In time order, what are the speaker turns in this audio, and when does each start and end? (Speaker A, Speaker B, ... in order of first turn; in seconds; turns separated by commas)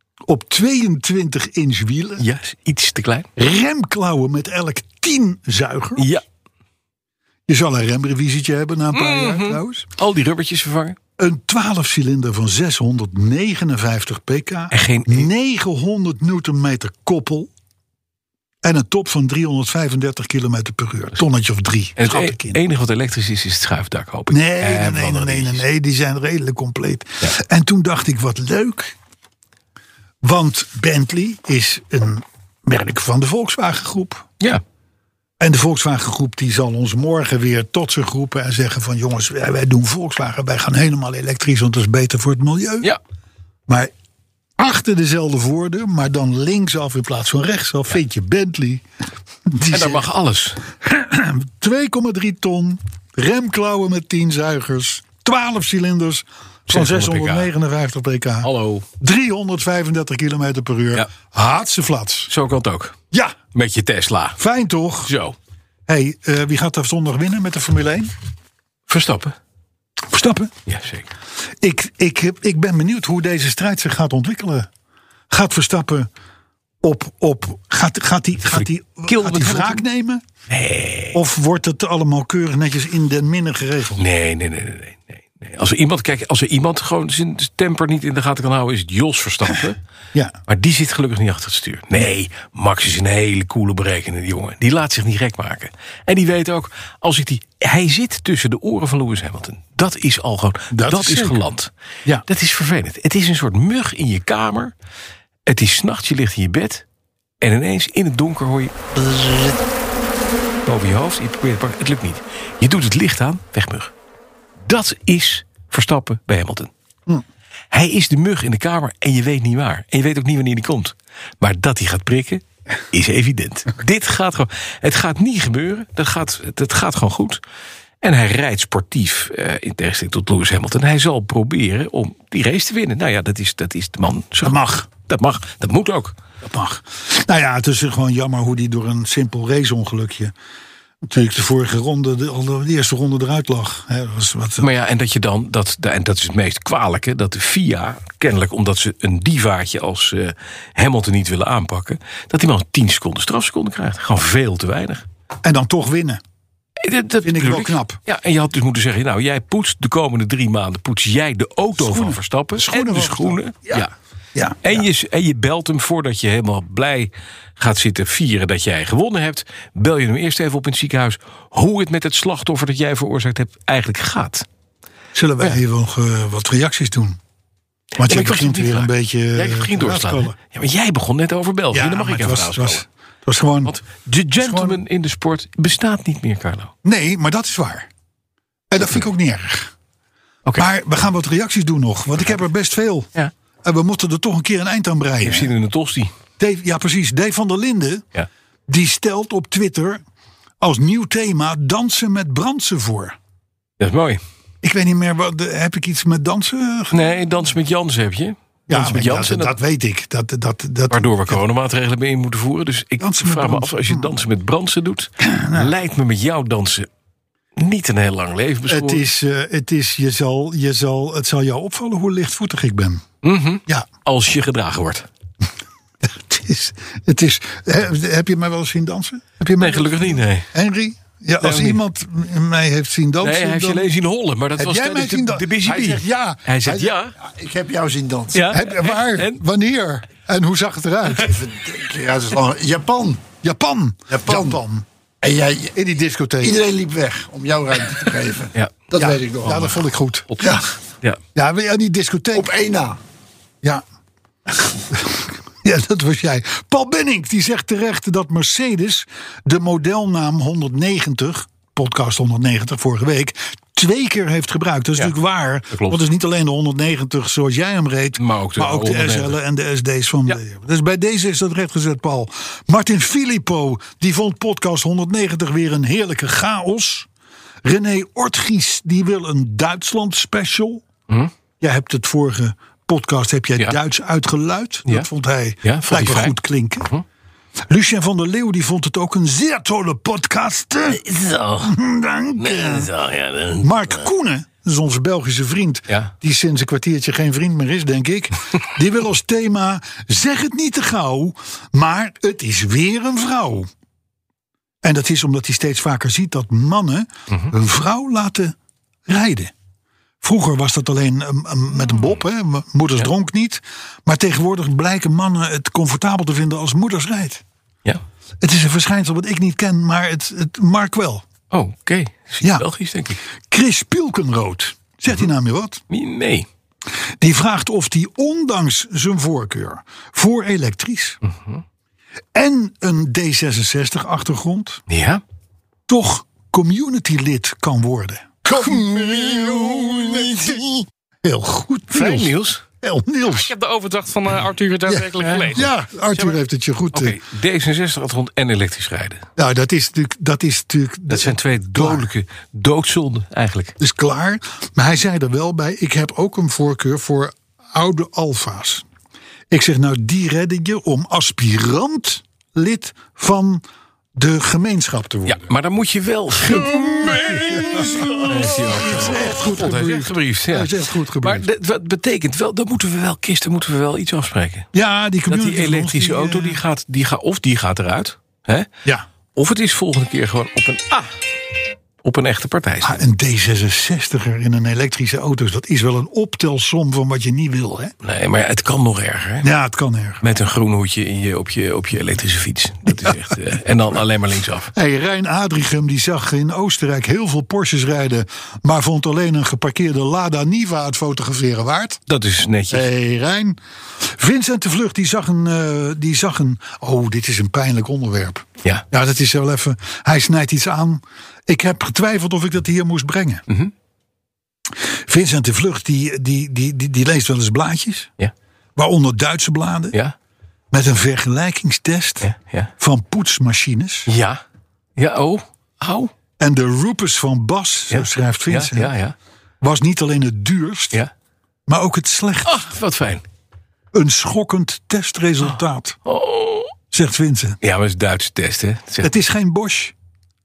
Speaker A: 0.3-2.2, Speaker B: 2.2-3.3, Speaker A: 3.4-6.1, Speaker B: 6.0-6.2, Speaker A: 7.5-9.9, Speaker B: 8.9-11.0, Speaker A: 11.2-17.5, Speaker B: 14.7-15.3, Speaker A: 18.6-22.6, Speaker B: 22.0-25.6, Speaker A: 24.3-28.9, Speaker A: 30.2-34.3, Speaker A: 35.4-42.9, Speaker A: 44.6-48.8, Speaker A: 49.5-50.1, Speaker B: 49.7-50.6, Speaker A: 50.8-62.3, Speaker B: 56.7-57.5, Speaker B: 58.4-58.9, Speaker B: 62.3-63.0, Speaker A: 63.1-63.4, Speaker B: 63.5-64.4, Speaker A: 64.4-65.1, Speaker B: 65.0-65.3, Speaker A: 65.9-68.1, Speaker B: 68.9-69.3, Speaker A: 70.1-70.5, Speaker B: 70.7-71.1, Speaker A: 71.6-74.7, Speaker A: 75.3-76.1, Speaker A: 76.8-80.2, Speaker B: 78.5-79.8, Speaker B: 80.5-81.2, Speaker A: 81.1-84.0, Speaker B: 84.0-89.8, Speaker B: 90.5-101.7, Speaker A: 100.7-101.4, Speaker B: 102.3-104.7, Speaker B: 105.5-106.8, Speaker B: 107.4-109.5, Speaker B: 110.7-113.9, Speaker B: 114.6-116.7, Speaker B: 117.7-127.4, Speaker B: 128.0-136.2, Speaker A: 134.4-134.9, Speaker A: 136.4-140.3, Speaker A: 141.0-144.7, Speaker B: 144.6-155.1, Speaker A: 155.4-156.2, Speaker B: 156.8-163.9, Speaker A: 157.2-158.0, Speaker A: 161.8-164.8, Speaker B: 164.6-174.4, Speaker A: 175.1-177.2, Speaker A: 178.0-180.3, Speaker B: 178.0-182.8, Speaker A: 181.7-183.8, Speaker B: 183.6-186.7, Speaker A: 184.4-184.8, Speaker A: 186.8-187.9, Speaker A: 188.7-189.7, Speaker A: 190.6-193.1, Speaker A: 193.6-195.5, Speaker B: 195.2-196.1, Speaker A: 196.4-198.0, Speaker A: 198.7-200.0, Speaker A: 200.6-203.2, Speaker B: 203.8-204.2, Speaker A: 204.6-207.0, Speaker B: 206.9-209.6, Speaker A: 208.7-211.4, Speaker B: 210.9-216.9, Speaker A: 213.0-214.1, Speaker A: 215.2-215.7, Speaker B: 217.6-219.0, Speaker A: 218.7-223.1, Speaker B: 223.2-225.1, Speaker A: 226.0-233.9, Speaker B: 229.6-230.5, Speaker B: 231.4-231.8, Speaker B: 233.2-237.2, Speaker A: 234.6-236.9, Speaker C: 236.7-238.5, Speaker B: 238.3-239.4, Speaker A: 238.5-241.3, Speaker C: 241.2-243.2, Speaker A: 243.4-244.8, Speaker C: 244.1-244.6, Speaker C: 245.2-245.7, Speaker A: 245.7-246.6, Speaker C: 246.4-249.7, Speaker B: 248.5-248.9, Speaker A: 248.9-250.5, Speaker B: 249.4-249.8, Speaker B: 250.4-251.2, Speaker A: 251.3-252.5, Speaker C: 252.3-253.0, Speaker A: 254.9-277.1, Speaker B: 265.7-266.0, Speaker B: 268.2-269.4, Speaker A: 277.6-280.8, Speaker A: 281.6-286.9, Speaker B: 285.6-286.4, Speaker A: 287.7-291.0, Speaker B: 290.9-291.8, Speaker A: 291.6-292.9, Speaker B: 292.4-294.0, Speaker A: 293.6-303.7, Speaker A: 304.8-308.6, Speaker A: 309.1-309.5, Speaker A: 310.2-317.4, Speaker A: 318.4-321.2, Speaker B: 321.5-323.2, Speaker A: 322.4-322.7, Speaker A: 323.5-325.8, Speaker B: 325.9-326.5, Speaker A: 327.2-331.2, Speaker B: 331.2-331.6, Speaker A: 332.3-334.8, Speaker B: 334.9-335.2, Speaker A: 335.9-338.9, Speaker B: 338.6-340.8, Speaker A: 341.2-343.5, Speaker B: 341.9-342.6, Speaker D: 343.3-345.6, Speaker A: 344.9-347.2, Speaker B: 345.2-346.4, Speaker B: 346.9-349.2, Speaker A: 349.4-352.1, Speaker B: 351.1-353.7, Speaker A: 353.8-358.8, Speaker A: 359.5-363.6, Speaker A: 364.1-365.4, Speaker B: 365.3-374.7, Speaker A: 366.4-371.5, Speaker A: 374.7-376.6, Speaker B: 375.3-378.7, Speaker B: 379.3-381.1, Speaker B: 382.0-383.0, Speaker A: 382.8-387.9, Speaker B: 388.0-389.5, Speaker A: 389.4-390.2, Speaker B: 390.2-394.7, Speaker A: 394.7-402.0, Speaker B: 402.1-402.8, Speaker A: 402.7-413.4, Speaker A: 415.1-418.1, Speaker A: 418.8-419.9, Speaker A: 420.7-424.1, Speaker B: 422.2-422.7, Speaker B: 424.1-424.4, Speaker B: 425.0-426.1, Speaker A: 426.4-428.9, Speaker B: 427.9-429.1, Speaker A: 429.6-431.0, Speaker A: 431.7-432.6, Speaker B: 432.4-433.2, Speaker A: 433.9-436.0, Speaker B: 436.1-436.7, Speaker A: 436.9-437.6, Speaker B: 437.6-439.1, Speaker A: 439.0-439.9